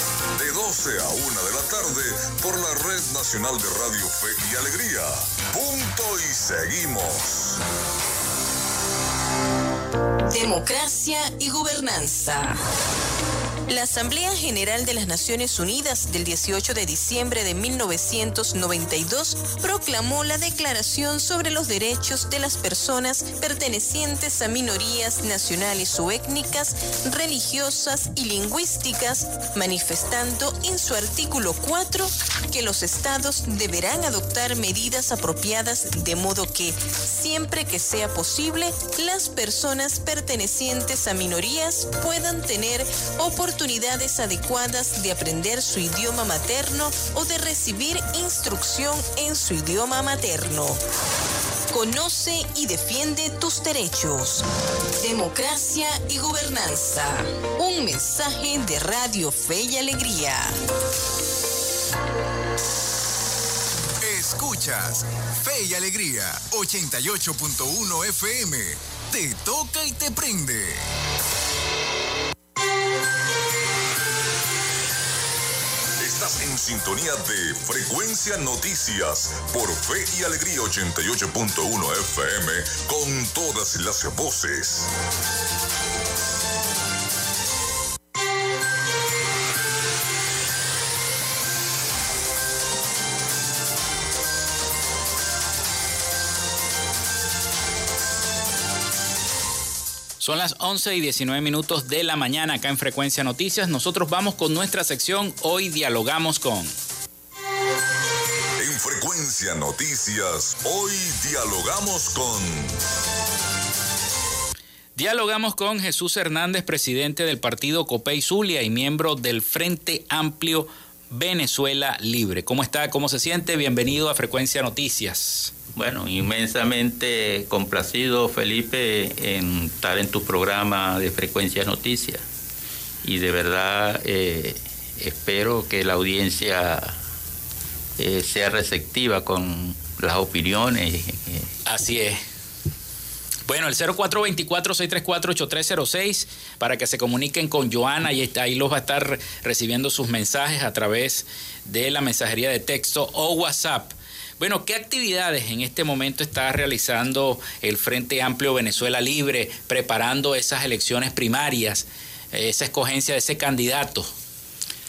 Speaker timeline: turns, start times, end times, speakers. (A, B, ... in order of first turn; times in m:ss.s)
0:00.4-0:07.6 A
0:10.3-0:12.6 B
0:13.7-0:50.8 B
0:51.7-0:54.5 B
0:55.0-1:00.6 B
1:04.0-1:10.9 C
1:16.0-1:24.9 A
1:40.2-1:46.7 D
1:48.6-1:52.8 A
1:55.0-2:05.5 D
2:05.8-2:12.2 E
2:13.0-2:17.0 E
2:18.0-2:21.5 E
2:21.7-2:22.2 D
2:23.5-2:44.1 D